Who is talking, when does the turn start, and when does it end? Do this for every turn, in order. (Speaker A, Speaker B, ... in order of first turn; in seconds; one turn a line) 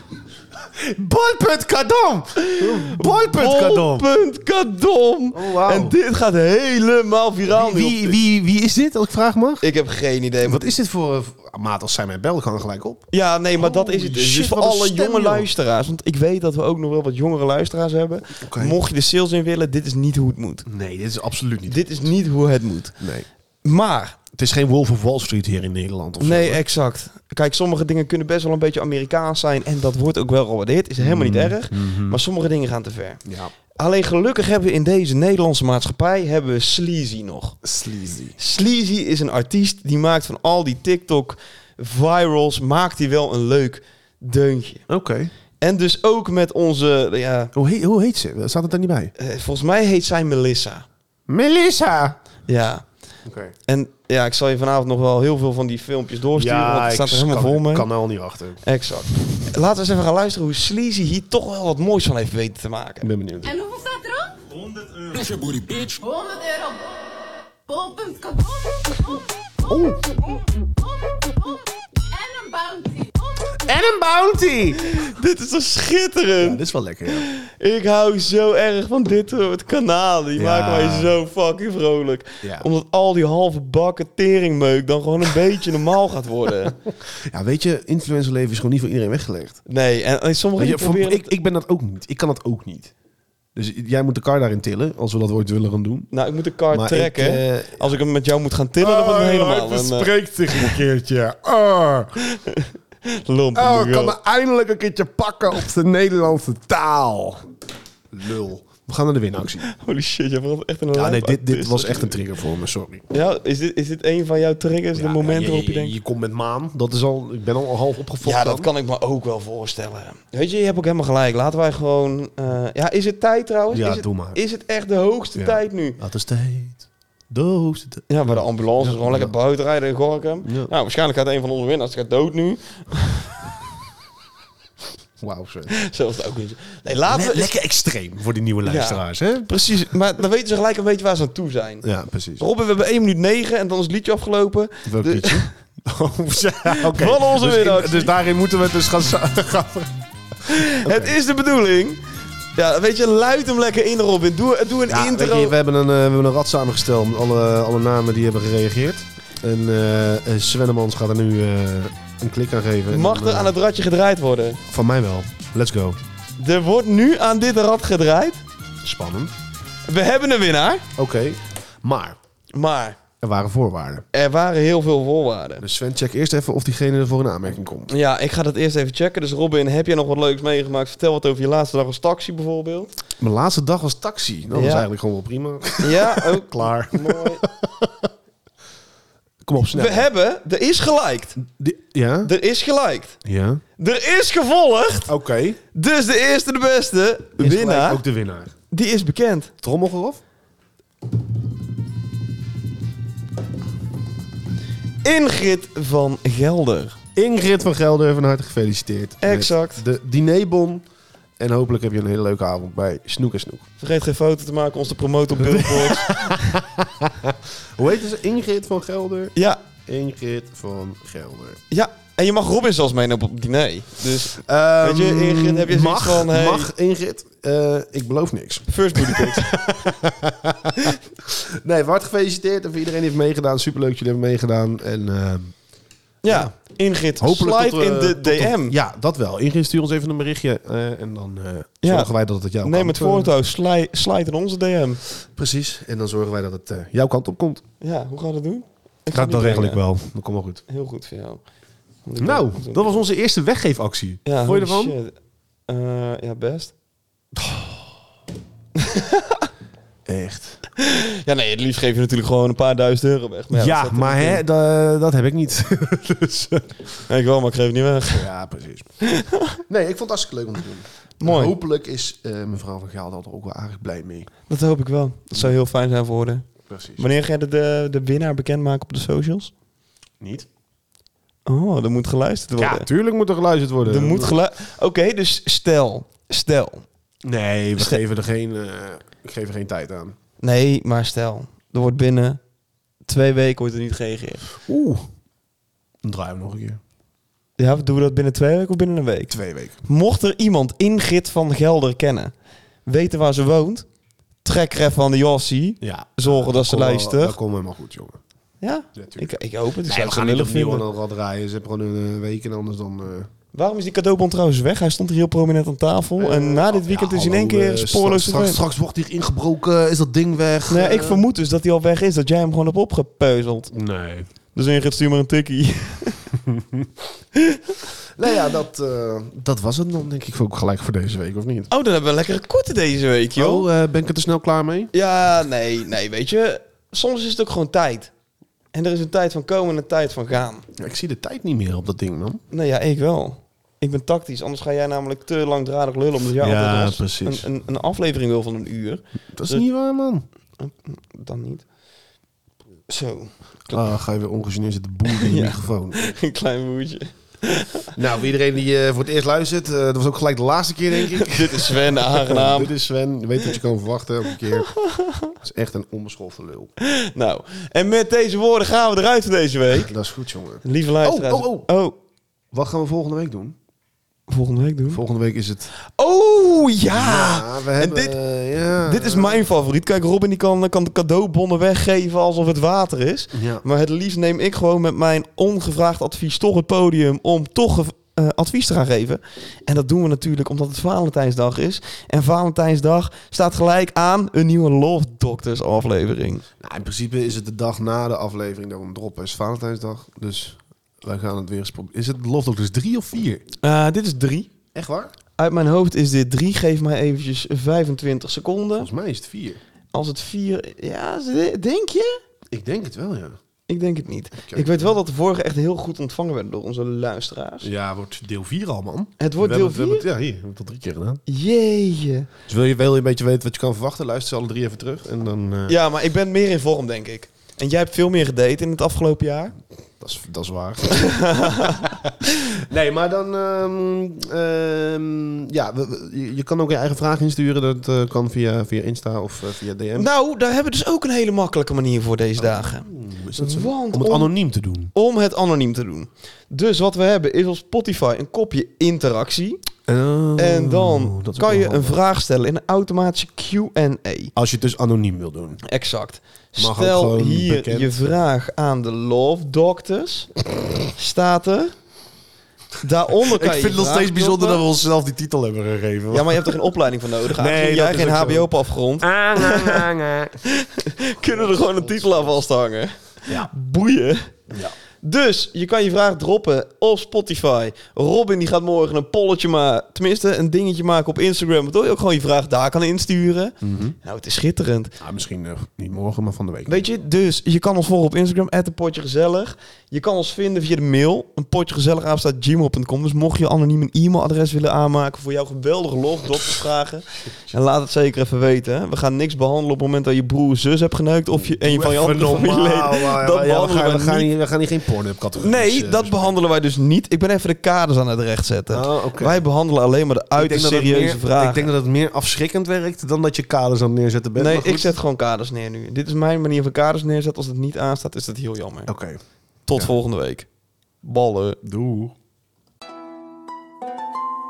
Speaker A: 0.6-4.1
Speaker B: 2.4-8.2
Speaker A: 5.3-6.0
Speaker A: 7.5-9.7
Speaker B: 9.6-10.7
Speaker A: 10.4-15.5
Speaker B: 13.1-20.7
Speaker A: 18.4-18.8
Speaker A: 20.7-22.1
Speaker B: 21.7-23.0
Speaker A: 23.0-23.3
Speaker B: 23.6-24.2
Speaker A: 24.3-26.6
Speaker B: 26.2-33.2
Speaker A: 31.0-32.2
Speaker A: 33.2-33.5
Speaker B: 33.8-37.6
Speaker A: 37.6-38.4
Speaker B: 38.4-44.9
Speaker A: 44.9-45.3
Speaker B: 45.6-47.5
Speaker A: 47.5-49.1
Speaker B: 49.2-50.9
Speaker A: 51.3-52.2
Speaker B: 52.5-52.9
Speaker A: 53.2-53.5
Speaker B: 53.7-57.9
Speaker A: 56.3-58.6
Speaker B: 58.6-63.1
Speaker A: 63.0-63.5
Speaker C: 63.4-64.4
Speaker C: 66.0-69.3
Speaker A: 69.7-70.0
Speaker C: 70.1-73.6
Speaker A: 73.6-75.0
Speaker B: 74.8-86.8
Speaker A: 76.4-77.3
Speaker A: 80.3-81.2
Speaker A: 82.4-82.7
Speaker A: 87.1-89.6
Speaker B: 89.7-91.3
Speaker A: 90.6-92.9
Speaker A: 93.5-96.1
Speaker B: 96.1-100.7
Speaker A: 96.7-98.0
Speaker A: 98.8-102.2
Speaker B: 102.2-104.2
Speaker A: 103.5-107.5
Speaker A: 108.1-109.7
Speaker B: 109.7-112.2
Speaker A: 110.9-113.0
Speaker B: 113.1-115.9
Speaker A: 115.0-118.7
Speaker B: 118.2-126.0
Speaker A: 123.7-124.4
Speaker A: 125.3-129.3
Speaker B: 128.1-133.3
Speaker A: 130.4-130.7
Speaker A: 135.2-135.8
Speaker B: 135.7-137.5
Speaker A: 137.1-139.6
Speaker B: 138.7-141.9
Speaker A: 141.8-142.4
Speaker B: 142.4-145.5
Speaker A: 144.9-149.9
Speaker B: 146.7-148.1
Speaker B: 150.5-152.0
Speaker A: 150.8-151.2
Speaker B: 152.6-155.6
Speaker A: 154.9-163.6
Speaker B: 162.9-164.6
Speaker A: 164.7-166.0
Speaker B: 166.4-168.4
Speaker A: 168.8-169.3
Speaker B: 169.9-170.8
Speaker A: 171.0-172.2
Speaker B: 172.5-173.0
Speaker A: 173.2-174.1
Speaker B: 174.1-175.6
Speaker A: 175.6-177.9
Speaker B: 177.9-182.9
Speaker A: 183.2-188.1
Speaker B: 184.5-184.9
Speaker B: 185.8-187.4
Speaker A: 189.4-190.1
Speaker B: 189.7-191.4
Speaker A: 191.4-192.3
Speaker B: 192.2-193.2
Speaker A: 193.2-193.6
Speaker B: 193.8-195.1
Speaker A: 195.1-195.6
Speaker B: 195.7-198.0
Speaker A: 197.4-198.5
Speaker B: 198.7-199.5
Speaker A: 199.6-200.2
Speaker B: 205.0-207.0
Speaker A: 207.2-210.8
Speaker B: 209.2-209.8
Speaker A: 211.4-213.7
Speaker B: 213.8-216.6
Speaker A: 215.3-221.6
Speaker B: 219.4-219.6
Speaker B: 221.7-226.7
Speaker A: 224.3-235.6
Speaker B: 228.7-229.6
Speaker B: 236.2-238.8
Speaker A: 236.3-236.5
Speaker A: 237.2-243.3
Speaker B: 241.8-242.1
Speaker B: 242.6-245.0
Speaker A: 245.3-247.6
Speaker B: 247.8-249.8
Speaker A: 249.1-250.6
Speaker B: 250.7-251.4
Speaker B: 252.1-253.0
Speaker A: 252.2-255.0
Speaker B: 254.2-255.2
Speaker B: 255.7-256.7
Speaker B: 258.8-259.4
Speaker A: 260.1-260.6
Speaker B: 260.8-264.4
Speaker A: 263.5-266.7
Speaker B: 267.1-268.3
Speaker A: 268.1-268.9
Speaker B: 269.0-269.6
Speaker A: 269.7-274.3
Speaker B: 271.2-271.5
Speaker B: 274.5-279.5
Speaker A: 276.7-277.1
Speaker A: 280.2-280.5
Speaker B: 281.5-282.9
Speaker A: 282.6-284.4
Speaker B: 283.8-286.9
Speaker A: 287.2-290.2
Speaker B: 290.4-292.4
Speaker B: 293.1-294.5
Speaker A: 294.6-295.1
Speaker A: 296.0-296.8
Speaker B: 297.6-302.3
Speaker A: 299.3-299.8
Speaker B: 302.9-303.9
Speaker B: 304.4-307.4
Speaker A: 305.8-308.2
Speaker B: 308.6-310.9
Speaker A: 308.9-313.3
Speaker B: 313.5-318.6
Speaker A: 316.2-321.2
Speaker B: 320.7-323.7
Speaker A: 323.7-324.3
Speaker B: 324.6-326.3
Speaker A: 326.3-326.9
Speaker B: 327.4-327.8
Speaker A: 328.2-331.7
Speaker B: 331.7-333.7
Speaker A: 333.4-334.9
Speaker B: 334.9-338.1
Speaker B: 338.7-340.6
Speaker A: 340.8-342.4
Speaker B: 342.5-349.6
Speaker A: 346.4-347.5
Speaker A: 349.3-350.2
Speaker B: 350.6-351.6
Speaker B: 352.9-353.8
Speaker A: 353.7-356.1
Speaker B: 355.1-357.9
Speaker A: 357.9-364.7
Speaker B: 361.1-362.7
Speaker B: 364.7-365.3
Speaker A: 365.3-366.7
Speaker B: 366.8-369.9
Speaker A: 369.7-371.7
Speaker B: 370.6-371.9
Speaker A: 372.5-373.6
Speaker B: 374.3-375.0
Speaker A: 374.9-375.7
Speaker B: 375.9-378.1
Speaker A: 376.9-379.4
Speaker B: 378.8-396.4
Speaker A: 383.3-383.6
Speaker A: 396.6-403.4
Speaker B: 403.6-404.5
Speaker A: 404.7-405.1
Speaker B: 405.4-408.9
Speaker A: 408.8-409.6
Speaker B: 409.9-412.2
Speaker A: 412.5-413.4
Speaker B: 413.7-417.7
Speaker A: 414.3-414.9
Speaker A: 417.6-421.2
Speaker B: 419.2-420.1
Speaker B: 421.3-422.3
Speaker A: 422.5-425.8
Speaker B: 425.7-429.5
Speaker A: 430.0-440.1
Speaker B: 431.0-431.9
Speaker B: 440.0-444.3
Speaker A: 442.4-444.9
Speaker B: 444.9-449.6
Speaker A: 449.9-452.0
Speaker B: 450.4-454.3
Speaker A: 454.4-455.6
Speaker B: 455.6-460.3
Speaker A: 456.6-458.1
Speaker B: 460.9-461.7
Speaker B: 462.8-464.6
Speaker A: 463.3-466.5
Speaker B: 466.1-469.9
Speaker A: 467.4-470.4
Speaker B: 470.5-474.3
Speaker A: 471.2-472.4
Speaker B: 475.0-484.9
Speaker A: 483.6-484.0
Speaker A: 485.0-486.9
Speaker B: 486.7-504.3
Speaker A: 497.3-497.6
Speaker A: 501.3-506.3
Speaker B: 505.4-511.7
Speaker A: 508.7-509.4
Speaker A: 510.4-515.0
Speaker B: 514.4-518.9
Speaker A: 518.9-519.2
Speaker B: 519.7-520.5
Speaker B: 521.0-521.6
Speaker A: 521.6-522.1